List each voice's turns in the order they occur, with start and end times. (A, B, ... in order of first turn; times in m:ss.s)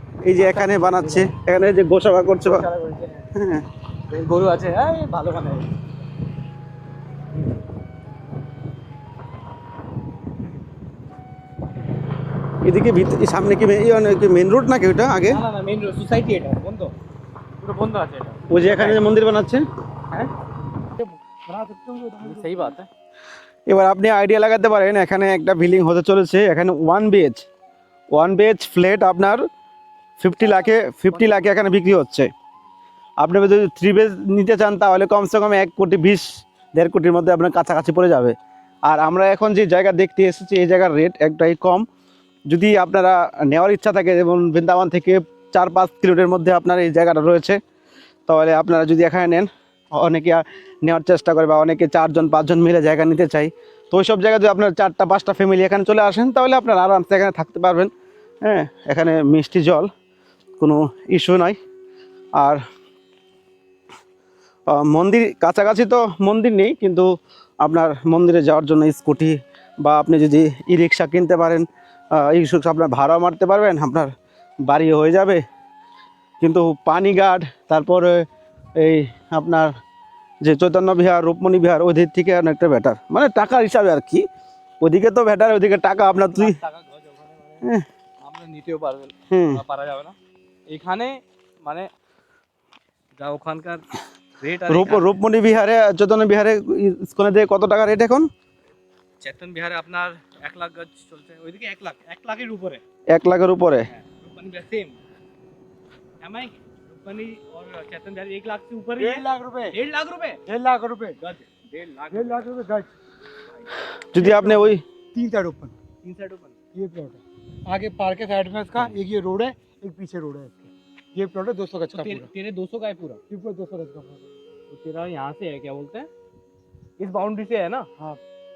0:00.2-0:02.7 A
0:00.4-0:01.3 B
0:02.4-0:03.3 B
0:03.4-0:03.7 A
0:04.1-0:05.8 B
0:12.6-0:15.4 A
0:15.3-0:16.9 B
0:17.6-0:19.1 B
0:18.5-0:19.6 A
0:21.0-0:22.8 C
0:22.2-0:22.9 B
0:23.7-0:27.4 A
0:28.1-0:29.4 A
0:30.2-0:32.3 A
0:33.2-0:41.8 A
0:42.5-0:47.6 A
0:48.3-0:57.9 A
0:58.4-0:59.9 A
1:00.6-1:01.6 A
1:04.7-1:07.1 A
1:07.6-1:14.1 A
1:14.6-1:15.4 A
1:16.4-1:18.3 A
1:18.8-1:19.7 A
1:20.4-1:24.2 A
1:24.8-1:26.6 A
1:26.2-1:27.6 B
1:28.2-1:30.2 B
1:29.3-1:29.6 A
1:30.7-1:31.9 B
1:33.2-1:33.8 B
1:34.4-1:35.2 B
1:34.7-1:38.3 A
1:39.2-1:42.8 B
1:43.1-1:43.9 A
1:43.9-1:45.0 B
1:46.2-1:50.4 B
1:49.0-1:49.8 C
1:50.5-1:51.2 C
1:51.2-1:52.5 B
1:52.1-1:52.9 C
1:54.1-1:54.8 A
1:54.2-1:55.8 C
1:56.0-1:56.6 B
1:56.7-2:02.3 C
2:01.9-2:03.2 B
2:03.3-2:04.3 C
2:04.7-2:06.1 B
2:07.0-2:07.9 B